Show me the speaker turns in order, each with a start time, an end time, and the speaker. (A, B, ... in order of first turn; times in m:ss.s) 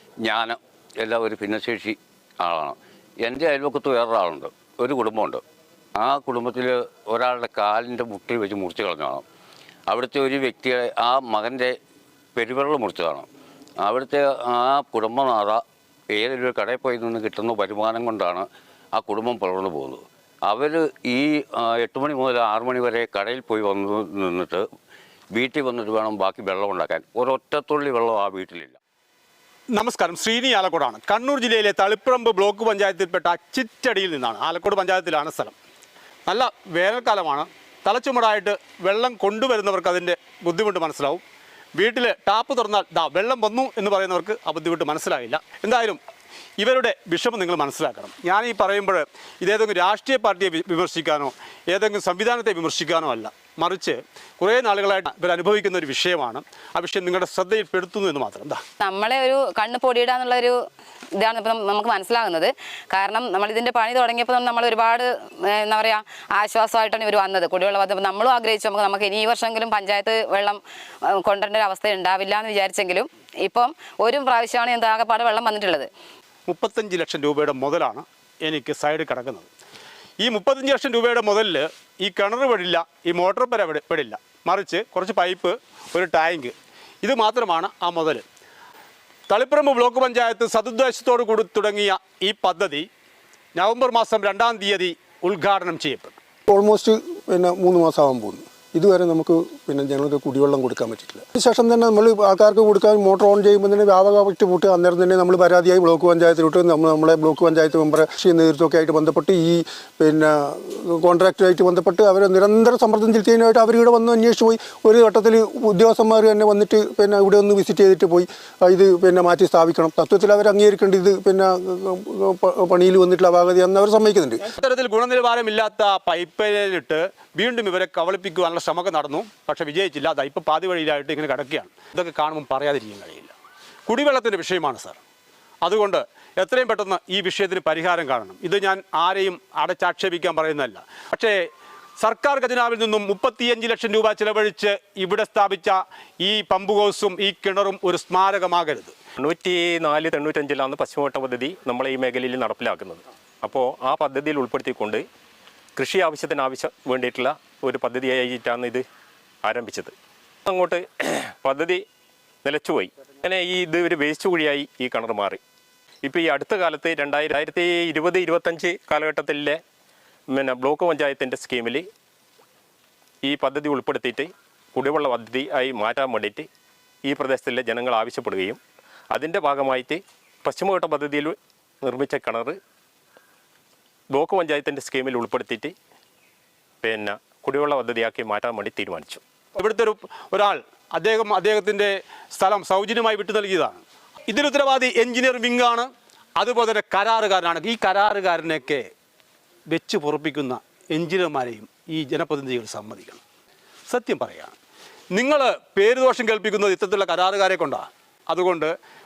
0:00.2-0:05.4 A
0:06.0-0:09.2 A
0:09.9-0:11.8 A
0:12.4-0:13.3 A
0:13.8-0:24.6 A
0:25.3-0:28.8 A
0:29.7-0:35.6 B
0:36.3-0:41.2 B
0:41.8-0:46.0 B
0:46.6-0:58.6 B
0:58.8-1:00.6 C
1:01.2-1:10.6 C
1:11.1-1:15.9 C
1:16.5-1:19.5 B
1:20.2-1:28.2 B
1:29.3-1:32.9 B
1:33.6-1:36.2 B
1:36.5-2:04.4 D
2:04.6-2:13.3 B
2:13.9-2:15.0 B
2:15.6-2:21.5 B
2:22.0-2:29.0 B
2:29.2-2:35.0 E
2:35.8-2:38.8 E
2:39.4-2:39.9 E
2:40.5-2:41.8 E
2:42.4-2:45.4 E
2:46.0-2:49.6 E
2:50.3-2:51.8 E
2:53.2-2:56.5 E
2:57.0-2:58.6 E
2:59.1-3:02.6 E
3:04.1-3:05.7 E
3:06.8-3:09.2 E
3:09.6-3:18.9 B
3:19.7-3:23.2 B
3:23.9-3:24.6 B
3:25.1-3:28.7 B